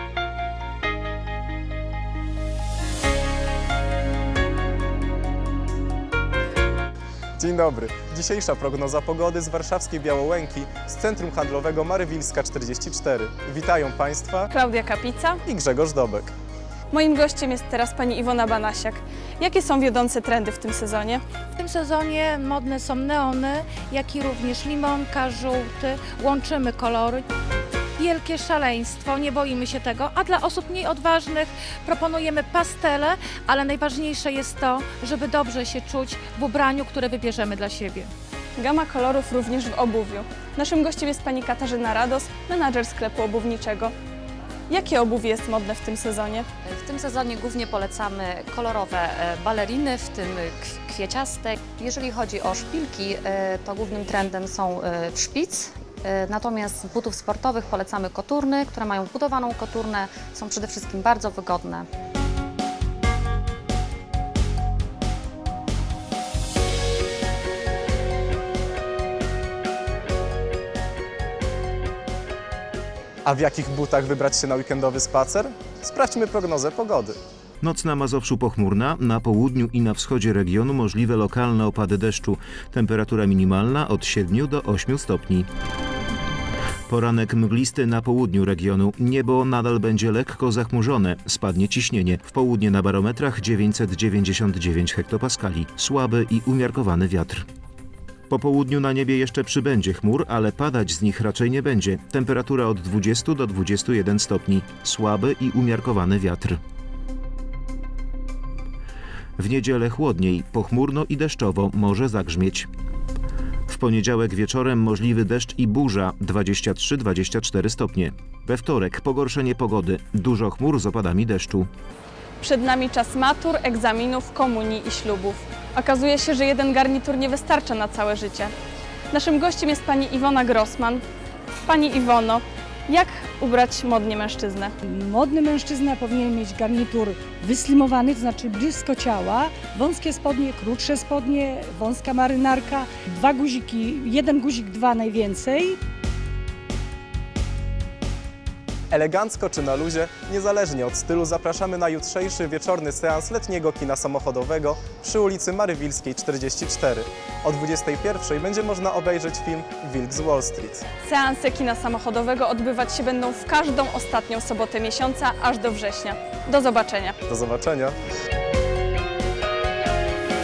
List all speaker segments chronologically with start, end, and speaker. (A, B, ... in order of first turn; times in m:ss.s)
0:07.4-0:14.5 A
0:14.5-0:15.4 B
0:15.4-0:16.3 A
0:16.9-0:21.2 B
0:21.6-0:27.2 C
0:28.0-0:38.1 C
0:38.6-0:43.9 B
0:44.7-0:46.5 B
0:46.7-1:01.8 D
1:13.2-1:17.2 A
1:17.6-1:25.5 E
1:26.9-1:37.4 E
1:38.3-1:46.6 E
1:49.4-1:52.7 E
1:53.7-2:01.7 E
2:02.4-2:08.5 B
2:09.1-2:11.0 B
2:11.6-2:14.7 B
2:14.9-2:25.8 F
2:28.9-2:40.8 A
2:41.0-2:47.2 B
2:47.3-2:48.0 A